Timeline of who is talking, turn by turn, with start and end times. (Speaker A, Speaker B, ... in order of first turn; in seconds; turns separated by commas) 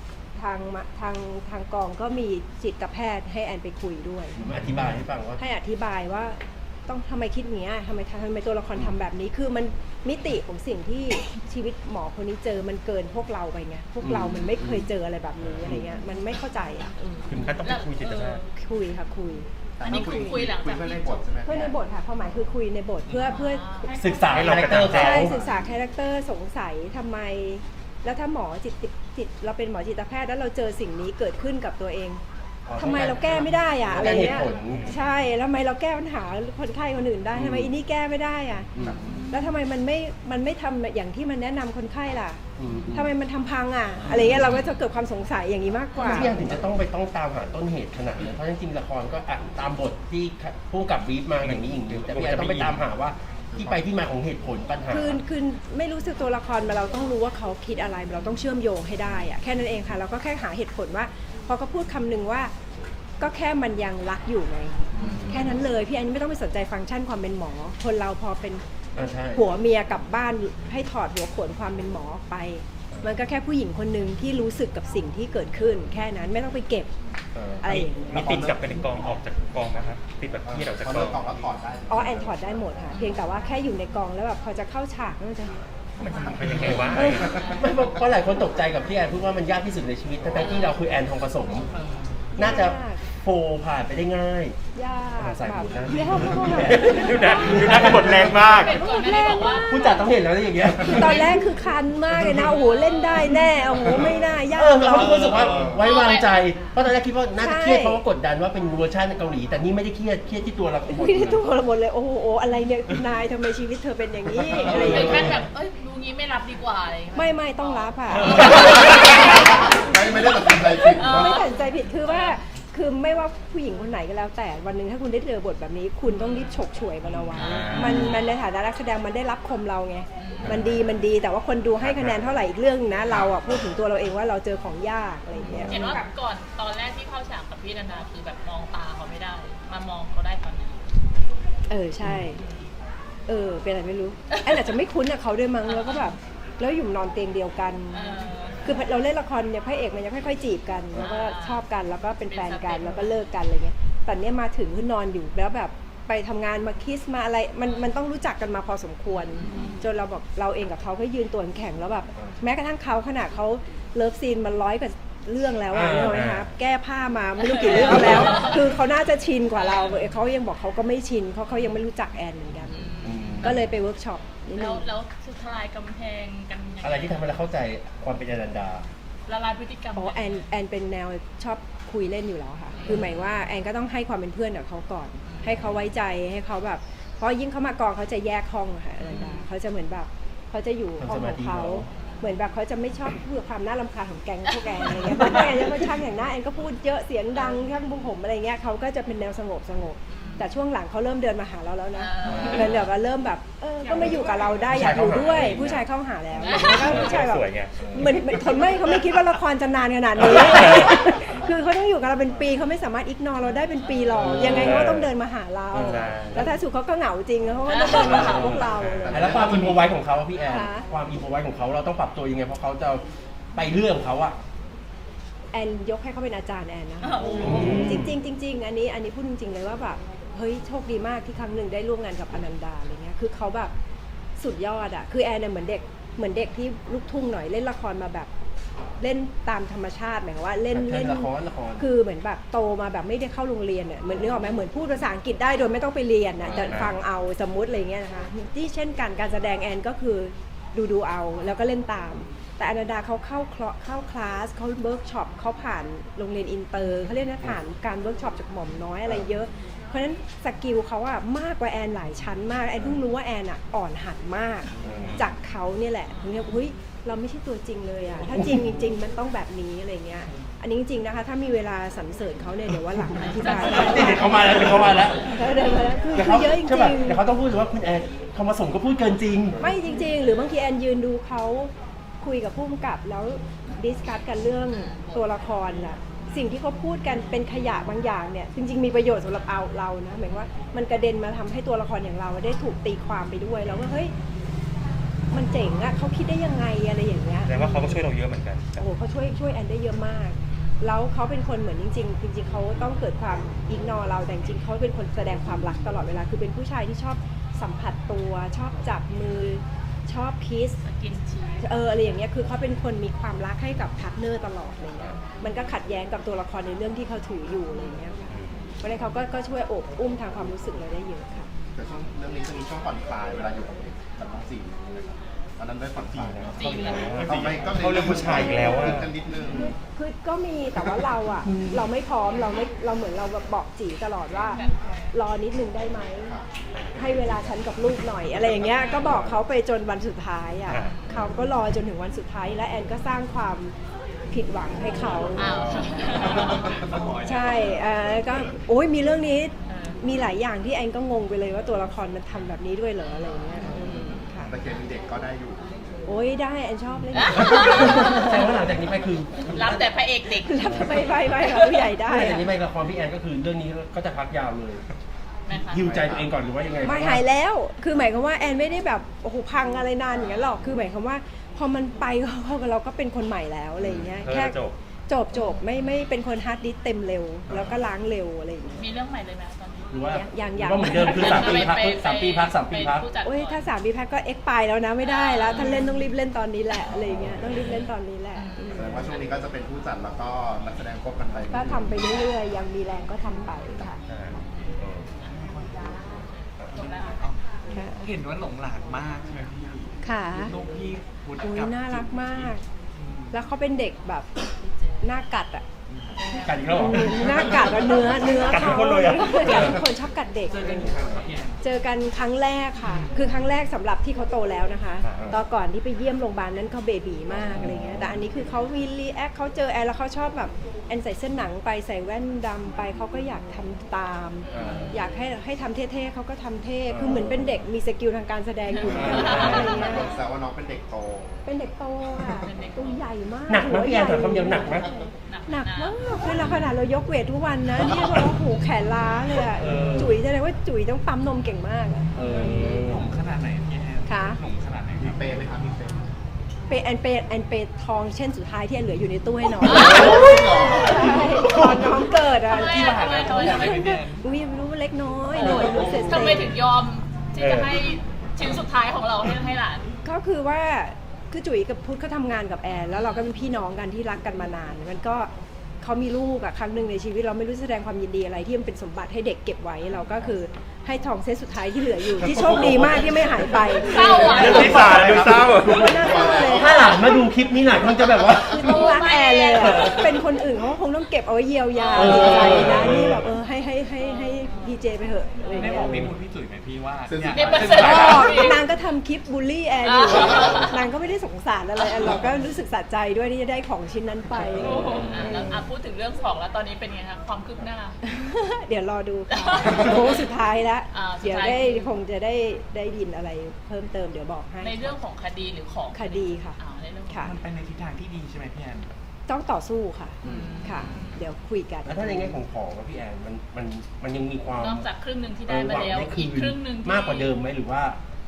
Speaker A: 0.3-4.4, Speaker B: 4.3-5.4, Speaker A: 5.4-17.3, Speaker B: 14.0-14.9, Speaker C: 17.3-18.4, Speaker D: 17.6-18.4, Speaker A: 18.5-20.4, Speaker E: 19.8-21.8, Speaker D: 19.8-21.2, Speaker A: 21.4-23.6, Speaker F: 23.1-23.4, Speaker D: 23.3-23.9, Speaker B: 23.9-25.3, Speaker C: 24.0-25.3, Speaker A: 24.8-32.2, Speaker B: 32.7-34.9, Speaker A: 32.7-38.7, Speaker B: 37.3-37.7, Speaker E: 38.8-39.2, Speaker A: 39.3-42.4, Speaker B: 42.6-43.1, Speaker A: 42.9-46.4, Speaker B: 44.1-44.6, Speaker B: 46.0-55.2, Speaker C: 51.4-52.8, Speaker E: 53.5-53.8, Speaker A: 54.9-62.5, Speaker A: 63.2-68.6, Speaker B: 65.0-65.5, Speaker B: 69.0-69.4, Speaker A: 69.3-76.9, Speaker B: 77.3-77.7, Speaker A: 77.6-78.4, Speaker C: 77.7-81.2, Speaker E: 78.1-78.8, Speaker E: 80.4-82.7, Speaker A: 81.9-85.5, Speaker D: 82.9-83.2, Speaker C: 86.0-87.3, Speaker E: 86.0-87.6, Speaker A: 86.9-87.3, Speaker B: 87.0-91.7, Speaker D: 90.4-90.8, Speaker B: 92.3-94.5, Speaker A: 92.4-93.0, Speaker A: 94.7-100.0, Speaker B: 95.2-98.2, Speaker C: 96.8-98.8, Speaker D: 98.5-100.0, Speaker B: 99.5-101.4, Speaker A: 100.8-105.6, Speaker B: 102.2-102.5, Speaker D: 102.7-103.3, Speaker B: 104.5-111.4, Speaker E: 105.4-105.8, Speaker D: 105.8-106.4, Speaker A: 107.4-108.0, Speaker A: 110.9-115.3, Speaker B: 114.5-115.4, Speaker D: 114.6-119.8, Speaker A: 117.1-118.9, Speaker F: 118.2-118.5, Speaker E: 118.5-118.9, Speaker E: 119.4-121.5, Speaker D: 120.8-122.4, Speaker A: 121.0-136.1, Speaker D: 126.1-126.5, Speaker F: 127.1-127.3, Speaker D: 127.3-128.2, Speaker C: 127.4-127.9, Speaker D: 130.2-130.6, Speaker B: 135.5-136.0, Speaker D: 135.7-140.8, Speaker A: 141.7-142.4, Speaker D: 142.3-142.6, Speaker A: 143.3-174.8, Speaker D: 145.6-146.1, Speaker D: 147.9-148.7, Speaker D: 150.9-151.6, Speaker D: 152.3-153.1, Speaker D: 159.3-159.8, Speaker B: 165.7-166.5, Speaker D: 167.4-168.6, Speaker B: 167.8-168.4, Speaker D: 169.6-170.1, Speaker D: 172.7-173.5, Speaker B: 173.0-173.7, Speaker D: 174.6-177.3, Speaker B: 176.8-178.8, Speaker D: 179.3-180.4, Speaker A: 179.9-219.3, Speaker D: 182.8-183.2, Speaker D: 185.2-185.6, Speaker D: 189.0-189.4, Speaker B: 191.0-191.9, Speaker D: 194.7-195.2, Speaker D: 200.1-200.5, Speaker D: 201.9-202.8, Speaker B: 202.2-202.8, Speaker D: 203.8-204.6, Speaker B: 204.6-205.8, Speaker B: 206.4-207.1, Speaker D: 206.4-207.2, Speaker C: 206.8-208.2, Speaker B: 207.8-208.1, Speaker C: 210.4-210.9, Speaker B: 214.2-215.1, Speaker C: 214.5-215.0, Speaker C: 215.7-216.5, Speaker D: 217.7-218.6, Speaker B: 217.8-223.0, Speaker E: 218.1-219.9, Speaker C: 218.6-219.3, Speaker A: 220.5-220.8, Speaker B: 223.5-224.4, Speaker A: 225.5-233.7, Speaker D: 227.0-227.8, Speaker B: 227.4-228.1, Speaker A: 234.4-238.3, Speaker A: 239.0-274.3, Speaker B: 240.7-241.8, Speaker B: 246.4-246.9, Speaker B: 264.8-265.2, Speaker B: 268.3-268.6, Speaker D: 273.2-274.3, Speaker B: 273.6-275.4, Speaker A: 275.3-277.2, Speaker B: 276.1-279.7, Speaker A: 279.6-294.1, Speaker D: 284.7-285.1, Speaker A: 295.3-298.0, Speaker C: 297.4-298.8, Speaker A: 298.8-310.8, Speaker D: 310.8-311.6, Speaker A: 311.6-318.2, Speaker C: 318.3-318.6, Speaker A: 318.8-321.5, Speaker E: 321.7-329.7, Speaker C: 326.1-329.1, Speaker B: 326.2-327.4, Speaker D: 326.6-327.1, Speaker A: 328.1-336.4, Speaker B: 331.4-331.9, Speaker D: 334.5-335.1, Speaker A: 336.9-343.7, Speaker C: 340.7-341.0, Speaker D: 340.7-341.3, Speaker A: 344.3-345.8, Speaker E: 345.1-347.0, Speaker D: 345.4-346.8, Speaker F: 346.8-348.1, Speaker A: 347.2-354.5, Speaker D: 349.7-350.0, Speaker E: 354.5-356.0, Speaker A: 356.1-358.4, Speaker D: 357.1-358.4, Speaker B: 357.5-359.9, Speaker D: 359.4-361.9, Speaker A: 360.4-362.5, Speaker B: 360.6-361.1, Speaker B: 362.1-364.8, Speaker D: 365.5-366.1, Speaker B: 365.7-367.2, Speaker E: 365.8-366.3, Speaker A: 366.8-378.8, Speaker B: 373.8-374.1, Speaker C: 374.2-374.7, Speaker D: 375.3-375.6, Speaker B: 377.5-377.7, Speaker D: 378.8-380.0, Speaker B: 379.9-383.1, Speaker A: 380.0-381.6, Speaker D: 380.8-383.7, Speaker A: 383.2-389.0, Speaker D: 385.0-386.0, Speaker D: 388.3-389.2, Speaker E: 388.7-391.9, Speaker A: 391.5-394.0, Speaker C: 394.1-395.1, Speaker F: 395.3-396.1, Speaker D: 396.3-397.2, Speaker F: 397.1-397.4, Speaker A: 397.7-398.1, Speaker F: 398.0-403.4, Speaker A: 400.0-400.5, Speaker A: 401.4-402.6, Speaker A: 403.3-404.3, Speaker A: 405.0-405.6, Speaker F: 405.9-406.2, Speaker D: 406.1-407.0, Speaker B: 406.4-407.7, Speaker A: 406.7-410.9, Speaker C: 408.3-409.8, Speaker F: 410.5-411.6, Speaker A: 411.6-430.1, Speaker F: 412.8-413.3, Speaker C: 415.0-415.3, Speaker B: 417.3-418.1, Speaker B: 424.5-424.9, Speaker D: 424.6-424.9, Speaker B: 426.9-427.5, Speaker D: 428.7-430.1, Speaker E: 428.9-431.6, Speaker B: 428.9-429.8, Speaker A: 431.4-442.1, Speaker D: 432.4-433.0, Speaker B: 433.5-434.9, Speaker D: 435.3-435.9, Speaker B: 439.6-440.1, Speaker C: 439.7-440.0, Speaker B: 442.1-443.0, Speaker C: 442.2-442.5, Speaker F: 442.3-445.4, Speaker A: 444.1-444.4, Speaker E: 445.0-446.1, Speaker A: 446.7-456.5, Speaker E: 449.6-451.7, Speaker D: 449.6-450.8, Speaker B: 451.4-451.9, Speaker D: 452.4-453.9, Speaker F: 452.7-454.2, Speaker D: 455.4-459.8, Speaker E: 455.7-456.3, Speaker C: 457.4-457.7, Speaker A: 460.0-465.3, Speaker A: 465.8-476.9, Speaker B: 472.2-473.2, Speaker E: 472.2-472.9, Speaker D: 473.8-474.9, Speaker E: 473.9-474.4, Speaker C: 474.3-475.8, Speaker B: 474.4-478.9, Speaker F: 474.6-475.4, Speaker E: 475.8-476.9, Speaker A: 478.2-486.1, Speaker D: 478.5-480.0, Speaker B: 479.6-480.0, Speaker D: 481.7-482.7, Speaker B: 481.9-483.2, Speaker F: 485.5-487.7, Speaker E: 487.1-488.5, Speaker D: 487.3-488.6, Speaker A: 487.7-495.6, Speaker D: 489.8-490.8, Speaker F: 494.4-495.1, Speaker D: 494.6-498.0, Speaker A: 498.0-504.9, Speaker D: 499.3-500.1, Speaker D: 500.9-501.9, Speaker D: 504.6-507.2, Speaker A: 505.9-506.6, Speaker A: 507.1-507.3, Speaker F: 507.2-508.9, Speaker A: 509.3-512.4, Speaker D: 510.2-511.2, Speaker B: 510.2-510.9, Speaker B: 511.9-514.9, Speaker D: 514.6-517.3, Speaker B: 515.5-518.0